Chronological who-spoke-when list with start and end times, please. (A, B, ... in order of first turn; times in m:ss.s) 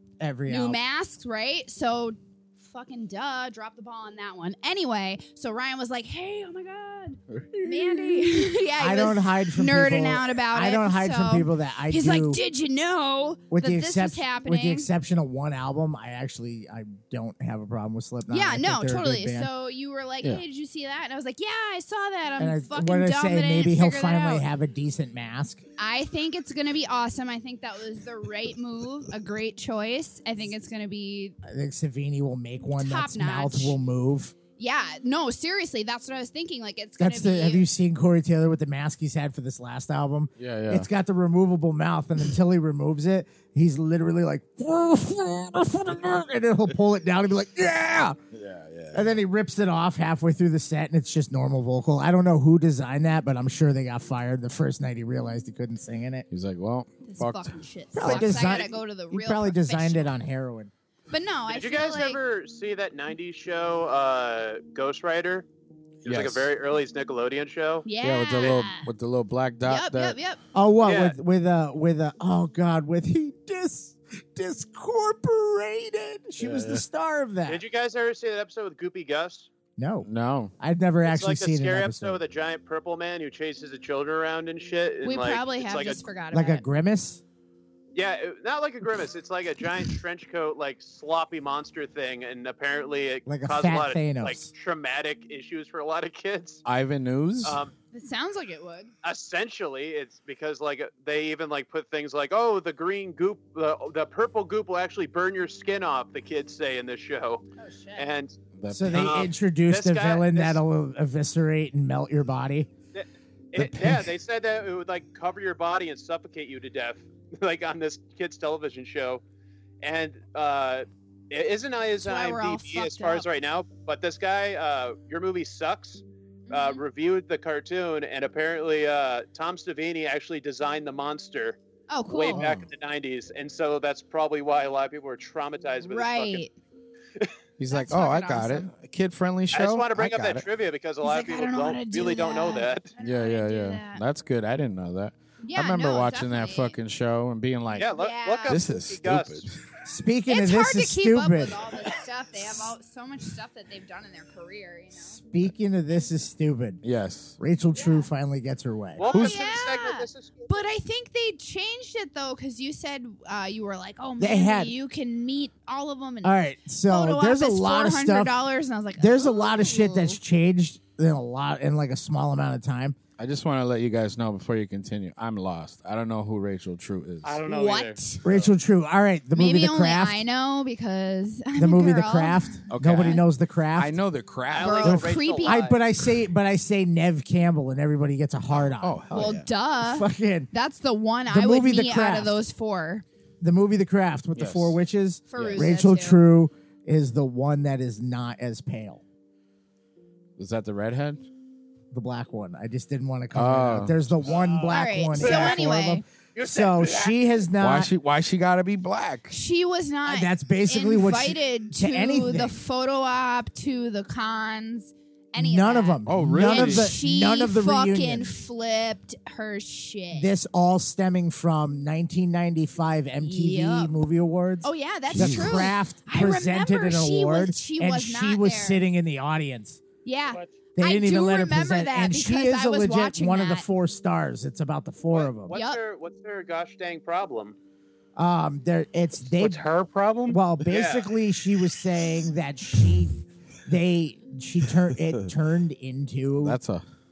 0:00.2-0:00.8 A
0:00.5-0:14.9 B
0:07.3-0:08.2 C
0:08.8-0:12.4 A
0:13.5-0:19.5 A
0:18.3-0:24.5 B
0:22.4-0:25.6 A
0:25.8-0:31.4 B
0:31.4-0:34.3 A
0:32.8-0:33.8 B
0:34.6-0:37.6 B
0:37.0-0:48.2 A
0:40.4-0:40.9 C
0:48.3-0:49.1 C
0:48.9-0:56.2 A
0:56.3-0:57.5 C
0:57.0-1:00.1 B
0:57.9-1:00.7 A
0:58.4-0:58.7 D
1:01.1-1:02.2 B
1:01.5-1:05.4 D
1:06.0-1:06.5 C
1:06.0-1:07.9 D
1:07.8-1:08.9 B
1:08.0-1:10.2 C
1:09.6-1:10.4 B
1:10.5-1:17.6 A
1:10.8-1:11.2 D
1:16.4-1:16.8 C
1:17.4-1:19.5 D
1:19.8-1:20.1 A
1:20.0-1:20.5 C
1:20.6-1:22.2 A
1:21.0-1:26.0 D
1:25.0-1:26.6 B
1:26.3-1:27.2 A
1:27.9-1:36.6 D
1:33.3-1:34.5 A
1:36.6-1:37.6 C
1:37.4-1:37.7 D
1:37.9-1:38.9 B
1:39.0-1:47.4 D
1:47.6-1:48.1 B
1:48.0-1:48.4 D
1:48.5-1:49.3 C
1:48.7-1:52.7 A
1:48.9-1:50.6 D
1:52.9-1:59.2 D
1:53.6-1:54.0 C
1:59.8-2:11.6 D
2:02.0-2:03.2 B
2:06.5-2:06.8 B
2:11.9-2:12.4 B
2:12.1-2:16.4 D
2:12.3-2:12.7 C
2:15.8-2:16.5 B
2:17.6-2:20.4 C
2:17.7-2:18.7 B
2:19.5-2:22.9 D
2:21.0-2:24.0 B
2:23.0-2:27.9 C
2:25.4-2:26.8 B
2:27.7-2:29.5 D
2:27.8-2:28.6 B
2:28.4-2:29.6 C
2:29.8-2:31.5 A
2:30.3-2:35.2 B
2:35.0-2:36.8 A
2:36.8-2:37.4 C
2:37.4-2:39.0 A
2:37.7-2:38.1 B
2:39.0-2:40.7 D
2:39.1-2:39.4 C
2:39.1-2:50.2 B
2:44.2-2:44.7 A
2:46.2-2:48.4 A
2:48.9-2:53.0 A
2:53.2-2:57.4 C
2:57.2-2:58.0 E
2:57.5-2:58.2 B
2:58.2-3:00.2 A
2:59.3-3:03.2 B
3:01.5-3:04.0 A
3:02.7-3:03.2 C
3:03.8-3:05.0 C
3:04.5-3:05.8 D
3:04.6-3:05.7 B
3:04.8-3:10.5 A
3:08.5-3:09.5 C
3:09.1-3:13.0 B
3:11.3-3:12.4 A
3:13.4-3:19.0 A
3:14.4-3:14.8 C
3:15.3-3:16.2 B
3:15.4-3:15.7 C
3:20.4-3:21.2 C
3:21.9-3:27.9 A
3:23.3-3:24.4 C
3:24.2-3:25.6 D
3:24.7-3:26.0 B
3:26.3-3:27.1 D
3:27.6-3:29.3 C
3:29.3-3:40.3 B
3:30.0-3:32.6 A
3:35.3-3:38.3 A
3:36.0-3:36.9 C
3:40.1-3:49.8 A
3:43.2-3:44.0 B
3:44.6-3:48.8 B
3:45.1-3:45.7 C
3:50.0-3:53.7 B
3:50.3-3:50.5 E
3:50.7-3:55.5 A
3:55.1-3:57.6 D
3:55.5-3:55.8 B
3:58.2-3:59.6 A
3:59.3-4:00.4 E
4:00.3-4:06.6 A
4:00.6-4:01.1 D
4:06.4-4:06.8 C